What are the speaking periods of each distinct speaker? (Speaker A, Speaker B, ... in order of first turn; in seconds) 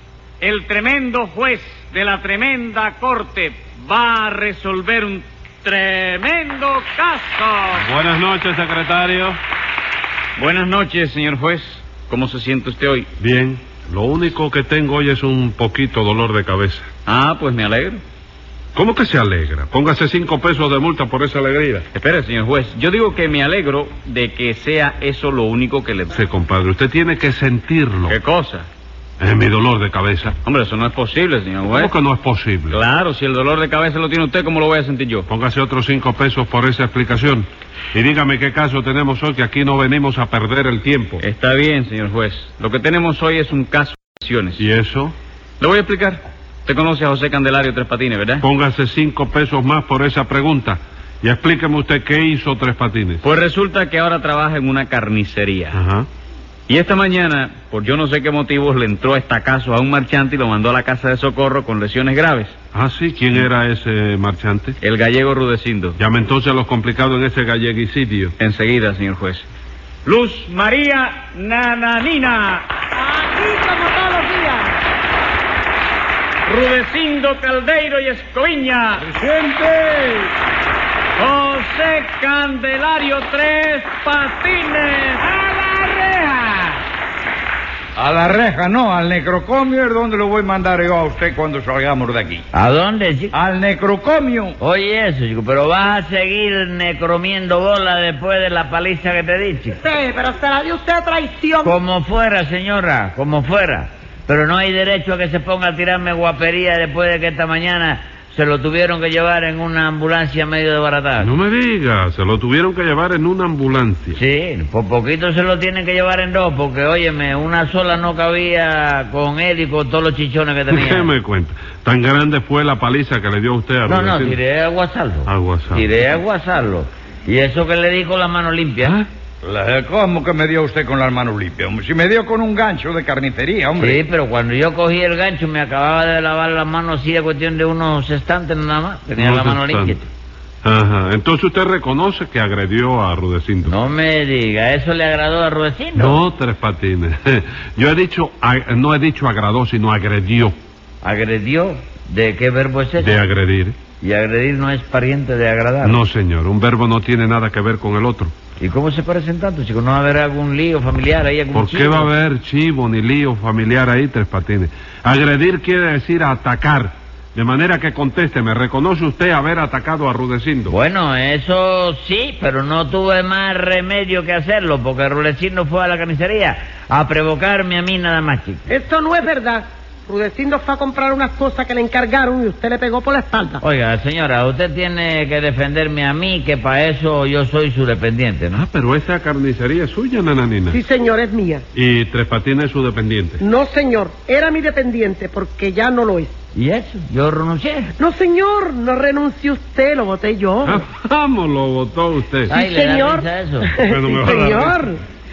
Speaker A: 0.4-7.9, 10.4-13.1, 17.1-18.0, 21.9-26.1, 28.1-28.7, 30.4-31.9, 32.7-35.3, 41.2-44.6, 45.6-48.5, 53.2-55.8, 56.7-62.5, 64.8-66.0, 68.4-69.5, 70.0-72.7, 76.5-79.1, 81.2-86.8
Speaker B: 7.7-9.4, 13.2-16.9, 18.8-21.9, 26.1-28.2, 29.2-30.4, 31.7-32.8, 35.3-41.2, 44.6-45.1, 48.4-53.2, 55.7-56.1, 62.7-64.8, 66.0-68.3, 111.2-114.2, 120.7-124.4, 125.3-125.8, 139.2-140.0, 140.6-143.8, 145.9-150.6, 153.0-153.8, 155.8-158.3, 161.5-170.7, 188.5-190.8, 191.7-193.4, 200.6-202.5, 203.9-204.8
Speaker C: 73.0-74.8, 99.8-101.7, 178.7-183.6, 190.7-191.6, 193.4-196.3, 198.0-200.8, 202.5-205.0
Speaker D: 79.1-80.3, 88.0-92.5, 93.3-94.6, 129.4-134.0
Speaker E: 92.5-93.3, 94.6-99.8, 101.6-111.3, 114.1-121.1, 123.9-129.0, 133.8-140.1, 143.7-146.2, 151.0-153.2, 154.0-156.0, 158.6-162.1, 170.7-178.7, 183.6-188.6, 196.6-197.9, 202.5-203.7